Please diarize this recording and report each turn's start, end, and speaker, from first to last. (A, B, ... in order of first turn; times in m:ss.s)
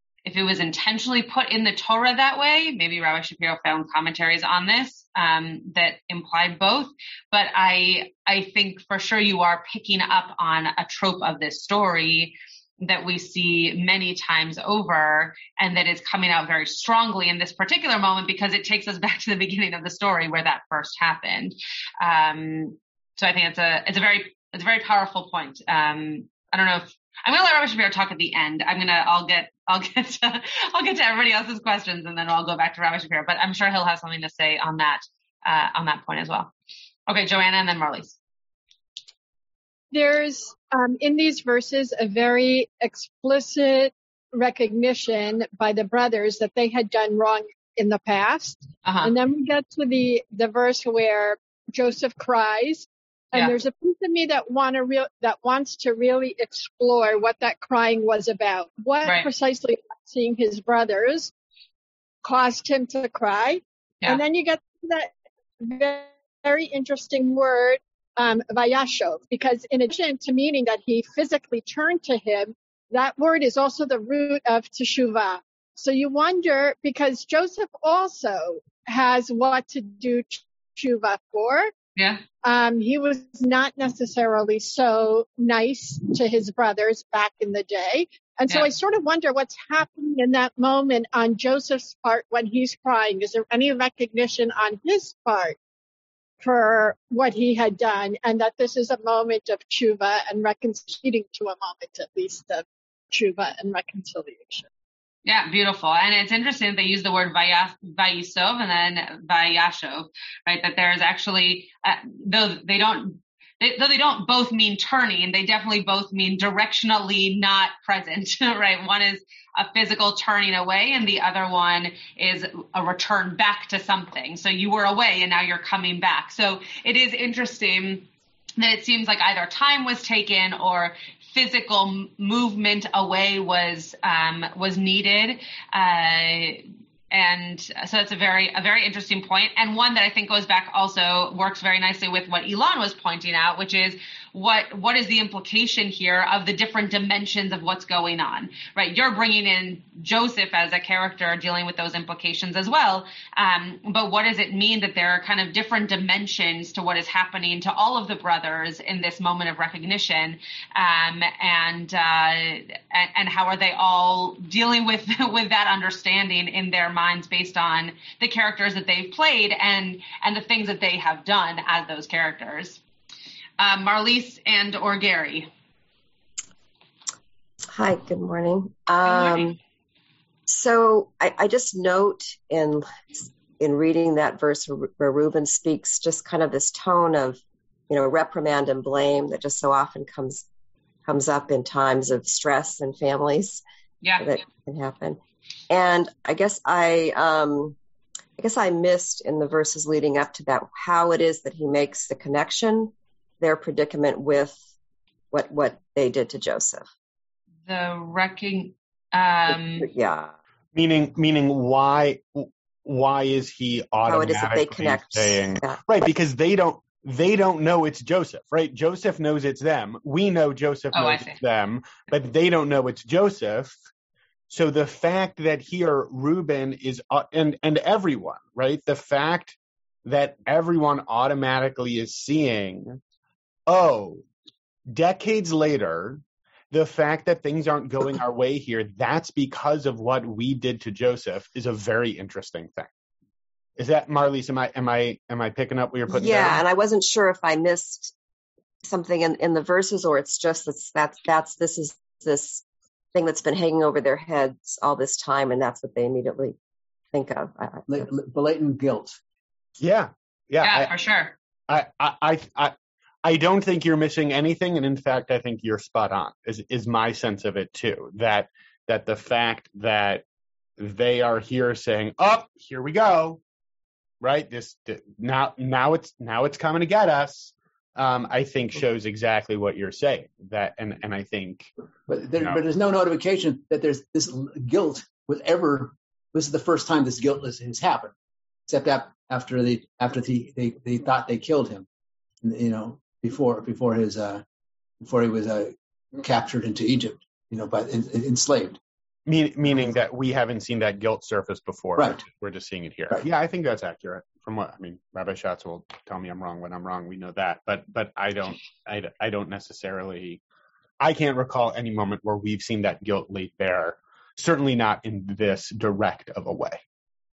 0:00.2-0:36.5 A
0:37.1-0:38.2 A
0:39.9-1:01.3 B
0:48.8-0:49.1 A
0:53.3-0:53.6 A
0:59.0-0:59.3 A
1:02.2-1:21.7 B
1:22.0-1:22.2 A
1:22.4-1:35.6 B
1:36.4-1:44.7 B
1:45.2-2:52.8 A
2:53.6-2:55.5 A
2:57.7-2:59.6 C
2:59.0-2:59.5 A
3:00.5-3:10.4 C
3:11.1-3:13.6 C
3:14.0-3:14.4 A
3:14.2-3:17.8 C
3:18.4-3:24.6 C
3:25.3-3:26.9 C
3:27.7-3:29.9 A
3:29.5-3:30.3 C
3:30.8-3:43.8 D
3:34.0-3:35.8 C
3:40.9-3:41.4 A
3:44.5-3:53.0 D
3:53.7-3:54.2 D
3:54.9-4:02.9 D
4:03.8-4:06.6 D
4:06.1-4:08.1 C
4:08.8-4:12.6 C
4:13.1-4:16.6 C
4:17.1-4:17.8 C
4:17.9-4:19.2 E
4:19.8-4:20.9 D
4:20.6-4:21.4 A
4:21.7-4:30.2 D
4:30.8-4:33.4 D
4:34.2-4:41.7 D
4:42.1-4:48.1 E
4:42.4-4:42.6 D
4:48.7-4:51.9 E
4:52.4-4:54.4 E
4:55.0-4:58.8 E
4:59.3-5:10.4 D
5:02.0-5:02.2 E
5:11.0-5:16.8 D